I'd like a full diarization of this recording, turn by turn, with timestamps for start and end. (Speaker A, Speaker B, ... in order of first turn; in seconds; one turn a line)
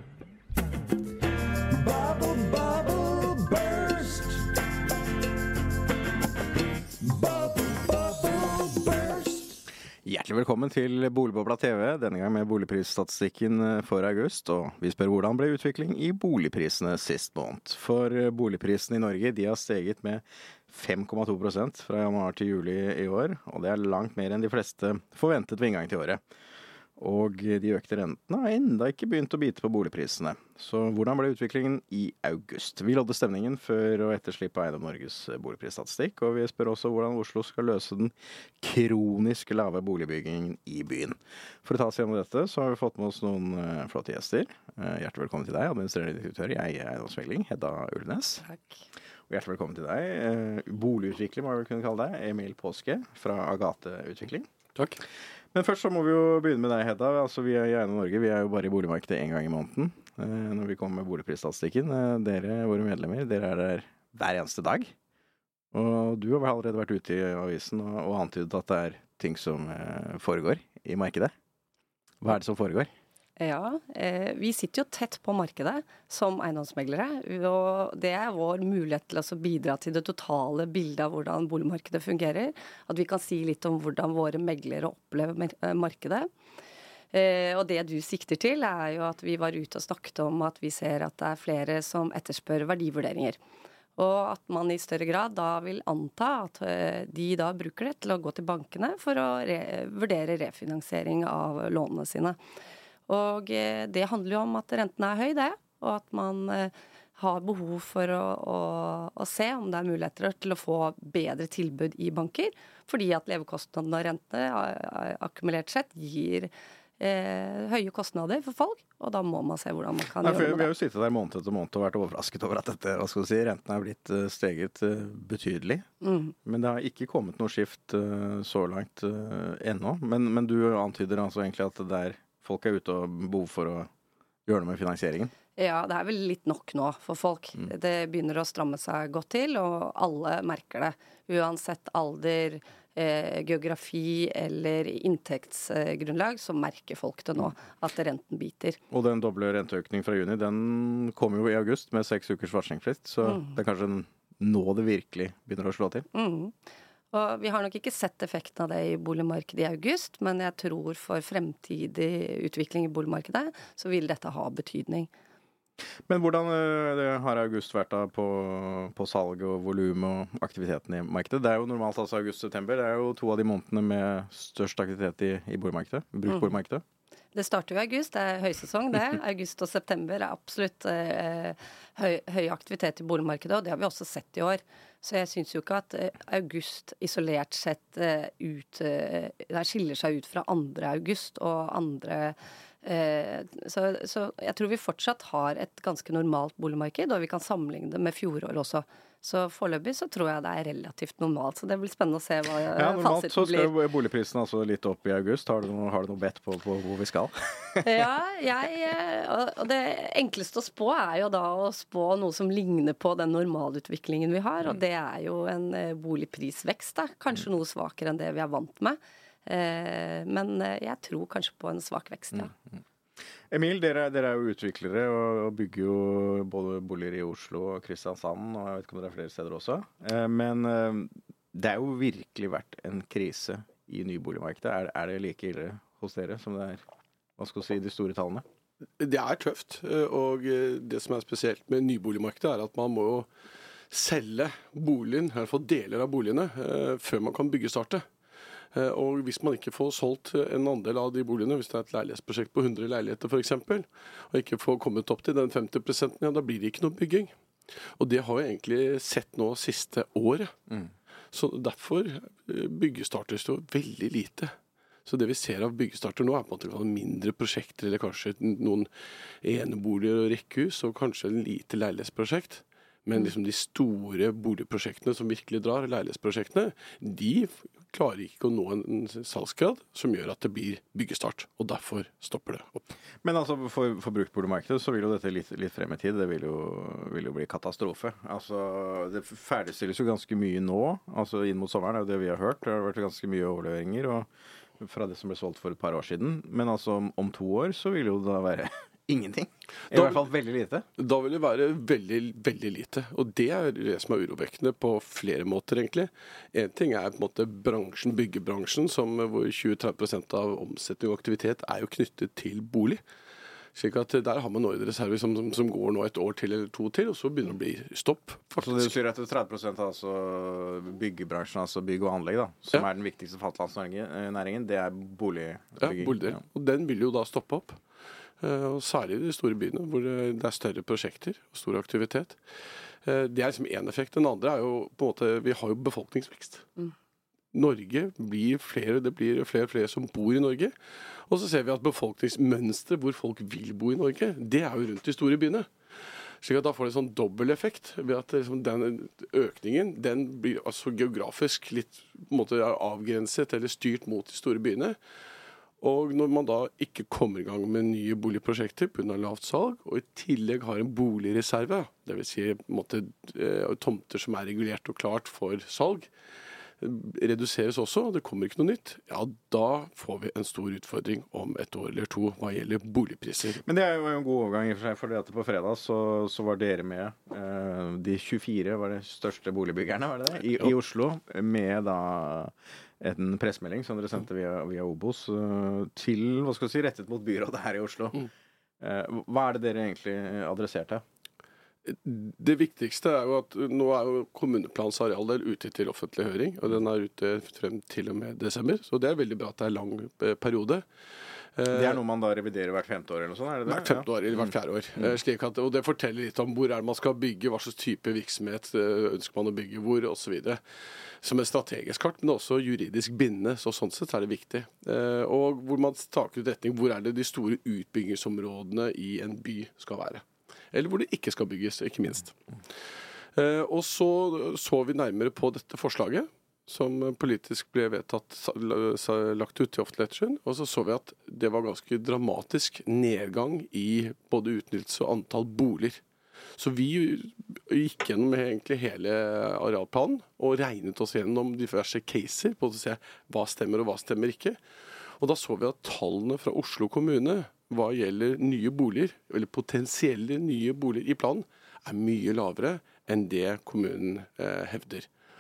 Speaker A: 1.7-4.5
Speaker A: 7.0-9.6
Speaker B: 10.0-26.2
Speaker B: 27.0-48.4
Speaker B: 49.3-54.5
Speaker B: 55.5-64.9
Speaker B: 65.7-71.3
Speaker B: 72.2-72.9
Speaker C: 73.4-86.3
Speaker C: 87.1-93.4
Speaker C: 94.0-102.4
Speaker C: 103.1-120.7
Speaker B: 120.2-125.8
Speaker C: 126.0-126.3
Speaker B: 126.4-133.9
Speaker B: 134.4-135.3
Speaker C: 135.6-148.8
Speaker B: 148.9-156.1
Speaker C: 153.2-153.6
Speaker C: 156.1-156.5
Speaker C: 157.1-165.1
Speaker B: 166.1-176.8
Speaker C: 177.3-203.7
Speaker B: 202.7-207.9
Speaker C: 207.8-222.5
Speaker B: 223.5-236.8
Speaker B: 237.4-238.4
Speaker D: 239.0-243.3
Speaker D: 243.9-248.0
Speaker D: 248.7-257.3
Speaker D: 257.8-260.5
Speaker D: 261.3-264.5
Speaker D: 265.0-268.9
Speaker D: 269.4-282.9
Speaker B: 283.2-300.8
Speaker D: 299.9-300.2
Speaker D: 301.0-313.0
Speaker D: 313.7-318.9
Speaker B: 318.6-326.4
Speaker D: 325.8-327.8
Speaker D: 328.4-332.4
Speaker D: 333.0-336.7
Speaker D: 337.5-345.7
Speaker D: 346.4-355.0
Speaker D: 355.8-366.1
Speaker D: 366.8-373.6
Speaker B: 373.6-388.3
Speaker B: 388.8-391.0
Speaker D: 391.8-400.8
Speaker D: 401.6-402.0
Speaker B: 401.7-405.1
Speaker D: 403.7-410.6
Speaker D: 411.2-422.3
Speaker D: 423.3-436.0
Speaker D: 436.6-444.6
Speaker D: 445.2-455.1